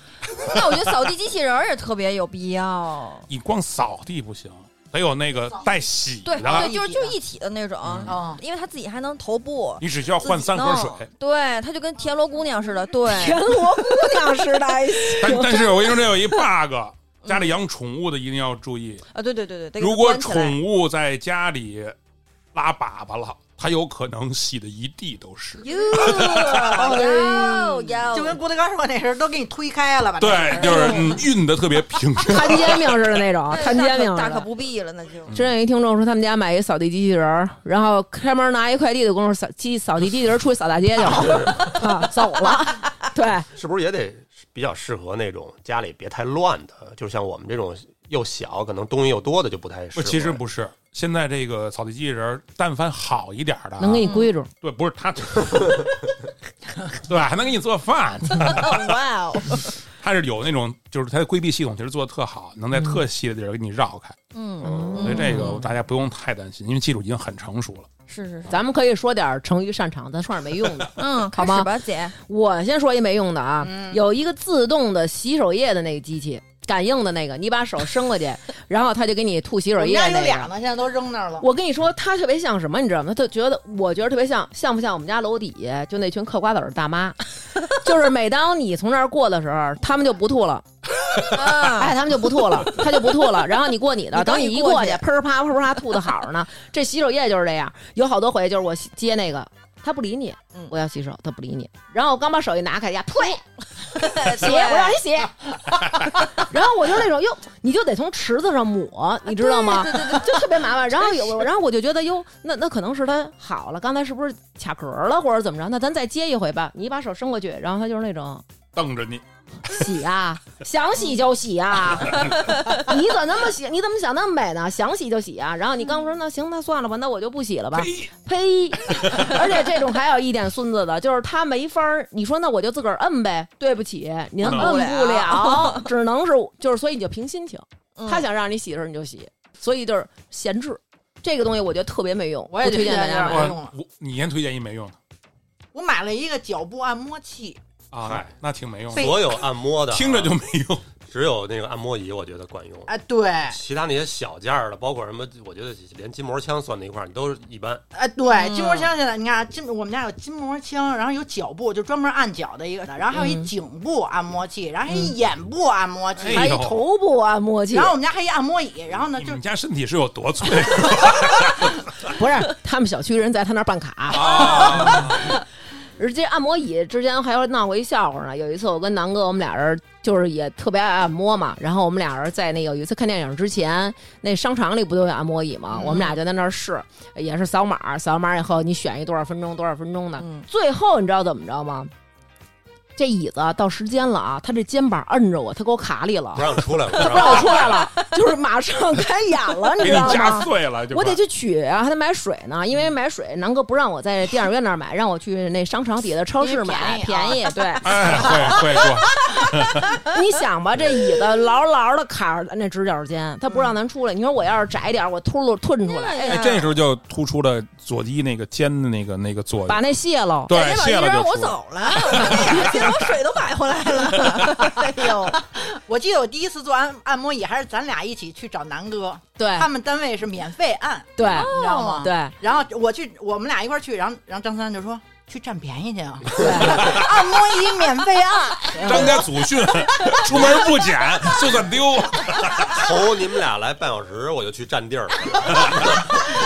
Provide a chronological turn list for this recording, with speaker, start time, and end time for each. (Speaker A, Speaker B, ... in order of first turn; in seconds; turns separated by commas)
Speaker A: 0.4-3.3, Speaker B: 0.4-0.8, Speaker B: 3.3-6.7, Speaker A: 6.2-15.2, Speaker C: 6.4-7.1, Speaker D: 6.6-6.9, Speaker B: 7.8-8.1, Speaker C: 8.1-8.4, Speaker B: 9.8-11.1, Speaker D: 13.1-16.0, Speaker B: 15.2-19.0, Speaker A: 17.2-17.6, Speaker A: 19.1-20.6, Speaker B: 19.8-21.9, Speaker B: 22.5-26.8, Speaker A: 25.6-28.4, Speaker C: 25.7-31.2, Speaker D: 26.8-27.6, Speaker B: 30.2-33.2, Speaker A: 30.5-31.1, Speaker D: 32.3-34.5, Speaker A: 33.5-35.3, Speaker B: 35.3-35.5, Speaker D: 35.3-43.5, Speaker E: 43.5-50.4, Speaker B: 49.9-56.0, Speaker D: 53.8-54.5, Speaker A: 54.0-54.3, Speaker B: 56.9-59.0, Speaker A: 58.4-59.7, Speaker B: 60.0-64.2, Speaker D: 62.7-63.0, Speaker A: 64.3-65.6, Speaker E: 64.6-65.0, Speaker D: 64.6-65.7, Speaker B: 65.0-67.9, Speaker A: 68.1-68.5, Speaker D: 68.5-80.5, Speaker A: 71.0-72.1, Speaker C: 73.6-74.0, Speaker C: 79.8-81.5, Speaker D: 81.4-90.7, Speaker A: 91.3-92.0, Speaker D: 91.3-103.4, Speaker A: 94.1-95.0, Speaker A: 103.8-105.0, Speaker D: 104.2-105.4, Speaker D: 106.3-118.4, Speaker A: 109.3-111.4, Speaker B: 118.7-119.2, Speaker D: 119.7-143.5, Speaker B: 127.7-128.1, Speaker B: 128.9-129.4, Speaker B: 134.4-134.8, Speaker A: 134.4-135.9, Speaker A: 138.0-138.2, Speaker C: 142.5-143.7, Speaker B: 143.3-144.9, Speaker C: 145.7-147.6, Speaker B: 147.9-149.2, Speaker E: 148.0-148.3, Speaker E: 148.9-150.3, Speaker C: 148.9-149.2, Speaker B: 149.9-150.8, Speaker E: 151.0-152.9, Speaker C: 152.9-153.6, Speaker E: 153.5-157.8, Speaker C: 157.9-166.6, Speaker A: 158.3-158.9, Speaker D: 163.1-163.5, Speaker D: 164.9-165.1, Speaker B: 166.2-166.8, Speaker D: 166.3-168.0, Speaker C: 167.7-169.4, Speaker B: 169.2-171.7, Speaker D: 172.1-175.3, Speaker B: 174.1-175.2, Speaker D: 176.0-191.9, Speaker C: 185.8-186.1, Speaker D: 193.0-208.6, Speaker E: 196.3-197.8, Speaker B: 199.8-201.2, Speaker C: 206.4-208.9, Speaker B: 207.8-209.9, Speaker D: 210.1-216.6, Speaker A: 215.8-216.7, Speaker B: 216.2-219.8, Speaker D: 219.7-220.6, Speaker B: 220.5-223.1, Speaker A: 220.5-225.4, Speaker B: 224.2-224.4, Speaker C: 225.3-240.2, Speaker D: 229.4-229.7, Speaker D: 231.2-232.3, Speaker A: 231.3-232.1, Speaker D: 236.3-237.0, Speaker B: 238.7-242.8, Speaker D: 238.8-239.2, Speaker E: 242.6-246.2